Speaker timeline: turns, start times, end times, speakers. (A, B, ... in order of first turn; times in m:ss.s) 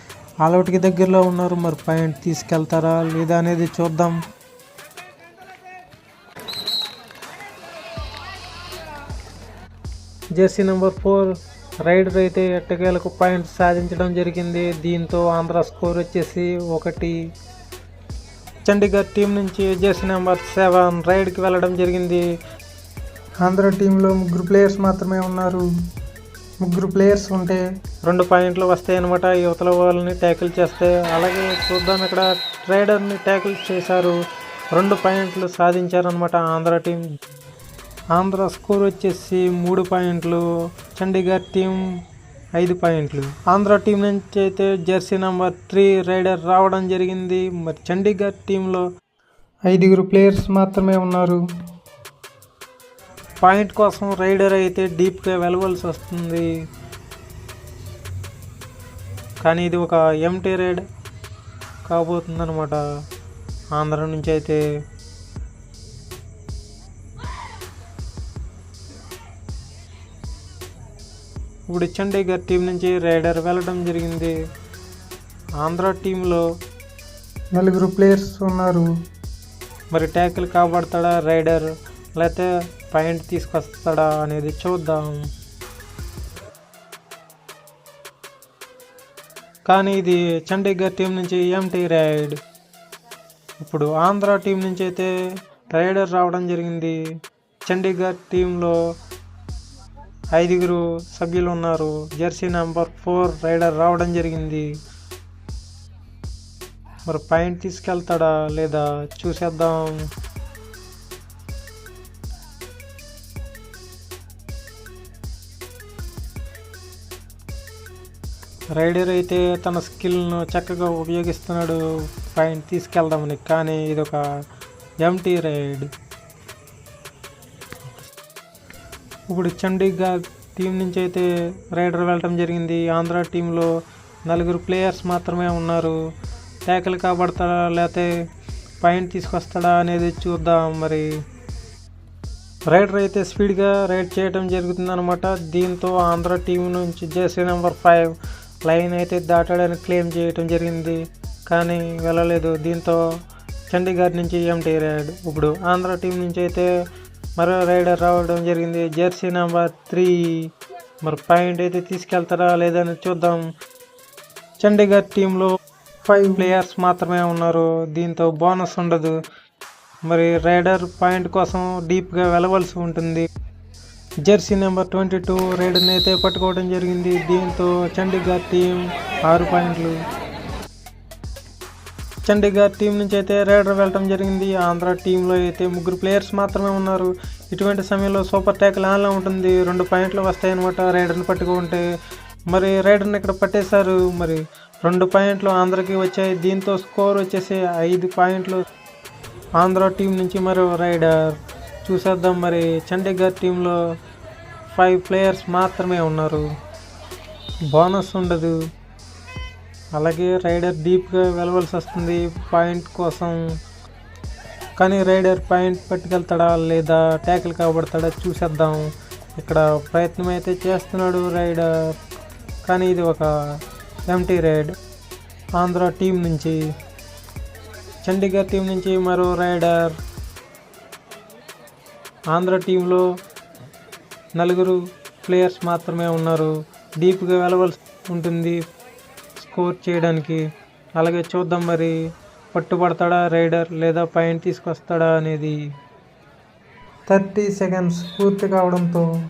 0:00.4-0:04.1 A
0:10.4-0:11.3 A
0:11.8-0:17.1 A
0:18.6-0:22.2 A
0:23.4-0:25.6 B
0:26.6-0:27.6 B
0:28.1-0:34.1 A
0:34.7-0:37.0 A
0:38.1-0:40.4 A
0:41.0-0:41.8 A
0:42.6-0:48.8 A
0:49.7-0:51.4 B
0:53.4-0:56.5 A
0:59.4-1:00.8 A
1:01.8-1:02.8 A
1:03.7-1:04.6 A
1:11.7-1:14.3 A
1:15.6-1:16.4 A
1:17.6-1:18.8 B
1:19.9-1:21.6 A
1:22.2-1:25.2 A
1:29.7-1:32.4 A
1:33.6-1:35.1 A
1:35.7-1:37.0 A
1:37.6-1:38.8 A
1:40.4-1:44.7 A
1:47.1-1:49.9 A
1:58.7-2:01.8 A
2:02.3-2:04.2 A
2:05.0-2:05.9 A
2:09.3-2:13.7 A
2:14.3-2:16.0 A
2:16.7-2:18.1 A
2:18.8-2:21.1 A
2:22.7-2:28.1 A
2:28.7-2:33.0 A
2:33.7-2:36.7 A
2:37.4-2:40.1 A
2:41.0-2:43.4 A
2:44.6-2:45.5 A
2:46.1-2:46.5 B
2:46.4-2:49.1 A
2:50.1-2:53.2 A
2:54.2-3:00.0 A
3:02.2-3:11.8 A
3:12.5-3:18.6 A
3:19.6-3:21.2 A
3:21.8-3:23.8 A
3:24.7-3:26.4 A
3:27.7-3:28.5 A
3:30.0-3:33.4 A
3:34.8-3:38.8 A
3:39.4-3:41.6 A
3:42.6-3:43.3 A
3:44.1-3:44.7 A
3:45.6-3:46.6 A
3:48.0-3:49.9 A
3:52.3-3:53.0 A
3:54.4-3:58.6 A
3:59.4-4:00.4 A
4:01.0-4:01.9 A
4:02.5-4:05.5 A
4:07.1-4:09.1 B